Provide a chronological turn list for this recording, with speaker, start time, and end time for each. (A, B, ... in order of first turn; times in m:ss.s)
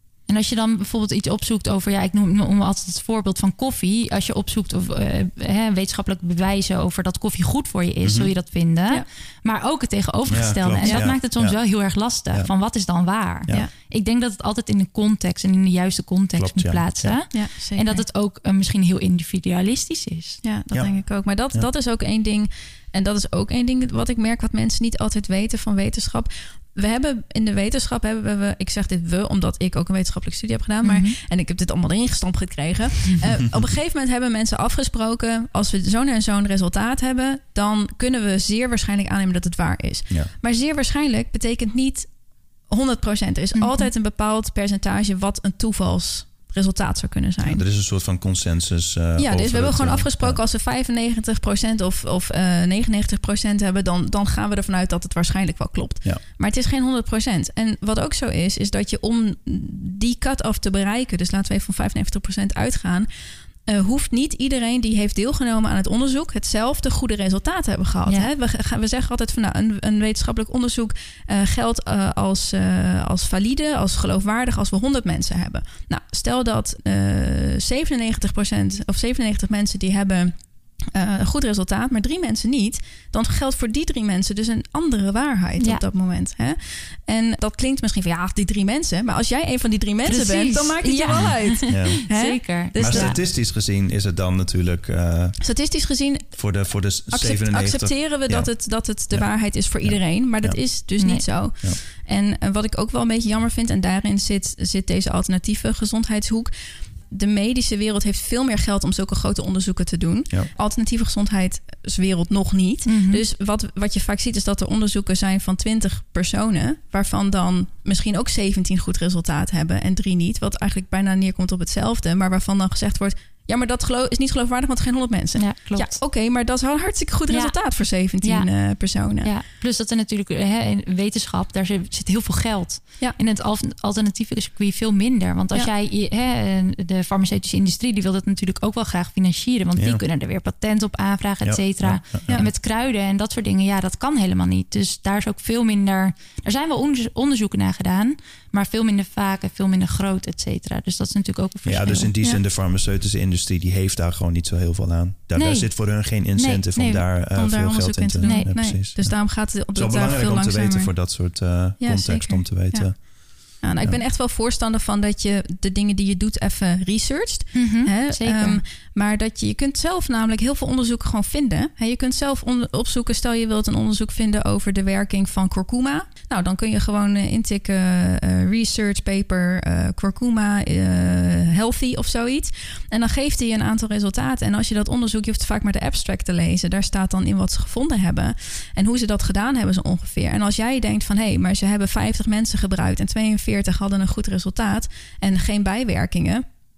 0:00.3-0:20.4 A
0:08.0-0:08.3 B
0:10.3-0:11.6 B
0:10.8-0:11.1 C
0:16.4-0:17.2 B
0:17.3-0:18.0 C
0:20.4-0:47.6 C
0:30.8-0:31.2 A
0:43.6-0:43.9 A
0:47.4-0:50.4 B
0:49.2-1:03.1 C
1:03.6-1:33.2 C
1:25.6-1:25.8 A
1:30.0-1:33.2 A
1:31.2-1:32.0 B
1:32.7-1:35.4 B
1:35.4-1:36.6 C
1:36.4-1:40.7 B
1:37.1-2:09.3 C
1:41.0-1:41.2 A
1:52.9-1:53.2 A
2:05.4-2:06.0 A
2:07.3-2:07.6 A
2:08.2-2:08.5 A
2:09.2-2:32.1 A
2:21.4-2:22.4 B
2:31.6-2:44.0 B
2:35.4-2:35.7 A
2:36.4-2:36.7 A
2:36.7-2:40.9 C
2:38.2-2:38.5 A
2:41.8-3:16.4 C
2:47.5-2:48.6 A